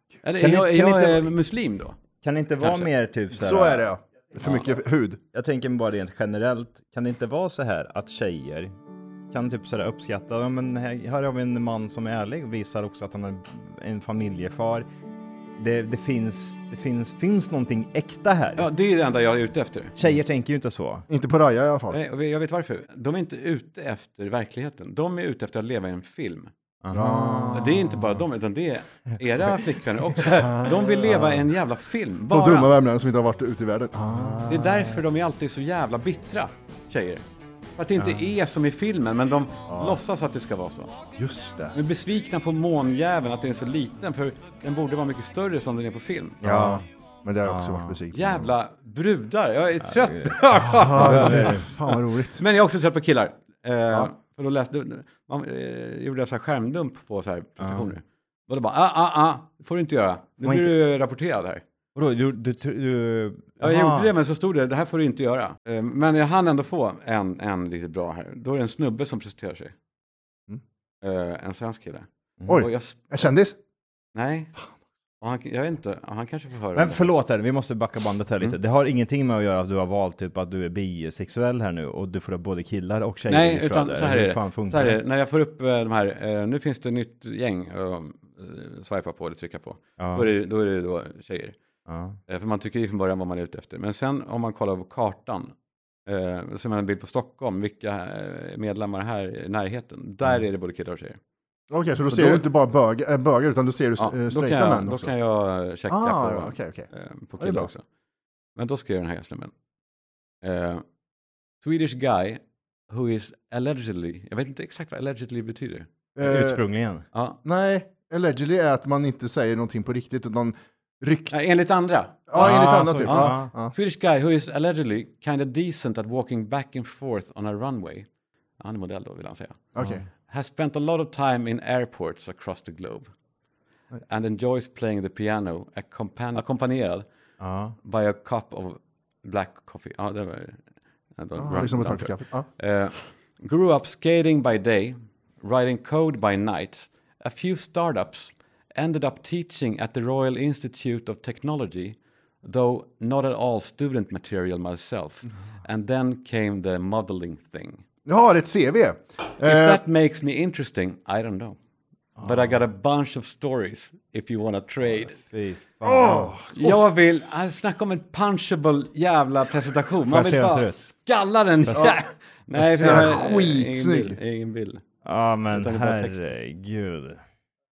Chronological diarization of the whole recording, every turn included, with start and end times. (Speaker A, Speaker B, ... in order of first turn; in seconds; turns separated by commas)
Speaker A: 0.2-2.0, Speaker B: 0.4-1.4, Speaker B: 2.2-3.9, Speaker A: 2.6-2.9, Speaker C: 3.3-5.2, Speaker B: 5.3-8.7, Speaker B: 9.3-14.8, Speaker B: 15.6-18.6, Speaker A: 18.6-19.9, Speaker B: 20.0-21.1, Speaker C: 21.1-22.0, Speaker A: 21.9-26.5, Speaker B: 26.8-28.2, Speaker C: 26.9-27.6, Speaker A: 27.5-32.7, Speaker C: 30.4-31.3, Speaker C: 32.3-34.8, Speaker B: 34.1-35.0, Speaker A: 34.5-37.2, Speaker A: 37.8-40.9, Speaker B: 38.0-38.3, Speaker C: 39.7-40.0, Speaker C: 41.2-41.7, Speaker A: 41.7-46.4, Speaker B: 46.4-46.8, Speaker C: 46.4-48.5, Speaker B: 47.4-48.0, Speaker A: 48.1-61.6, Speaker B: 49.8-51.6, Speaker C: 50.6-52.4, Speaker B: 57.6-57.9, Speaker B: 60.4-60.7, Speaker B: 61.9-64.1, Speaker A: 63.6-69.7, Speaker A: 71.0-73.0, Speaker C: 72.5-73.5, Speaker A: 74.1-74.5, Speaker A: 75.2-77.1, Speaker B: 76.7-85.0, Speaker A: 83.3-91.6, Speaker B: 90.0-90.3, Speaker B: 91.9-92.2, Speaker A: 92.3-95.5, Speaker A: 96.0-101.2, Speaker C: 101.7-105.1, Speaker A: 102.1-102.5, Speaker A: 104.0-107.8, Speaker C: 105.9-106.9, Speaker C: 107.4-107.7, Speaker A: 108.5-109.5, Speaker A: 110.4-110.8, Speaker A: 111.6-115.9, Speaker C: 116.2-116.6, Speaker B: 116.2-117.0, Speaker A: 117.1-117.4, Speaker C: 117.4-121.3, Speaker A: 121.3-128.1, Speaker C: 122.3-123.7, Speaker B: 122.3-123.5, Speaker A: 128.6-129.6, Speaker C: 129.7-130.0, Speaker B: 129.8-130.0, Speaker A: 130.3-133.1, Speaker A: 134.1-137.1, Speaker B: 137.4-137.8, Speaker A: 137.8-140.6, Speaker A: 141.1-157.8, Speaker C: 141.4-142.5, Speaker C: 158.1-159.8, Speaker A: 159.4-161.6, Speaker B: 162.2-162.6, Speaker A: 162.2-165.2, Speaker B: 164.8-166.5, Speaker C: 165.8-166.5, Speaker A: 166.5-174.8, Speaker B: 170.1-170.8, Speaker B: 171.7-171.9, Speaker B: 172.6-173.1, Speaker C: 172.8-174.2, Speaker B: 175.0-177.2, Speaker A: 175.5-176.2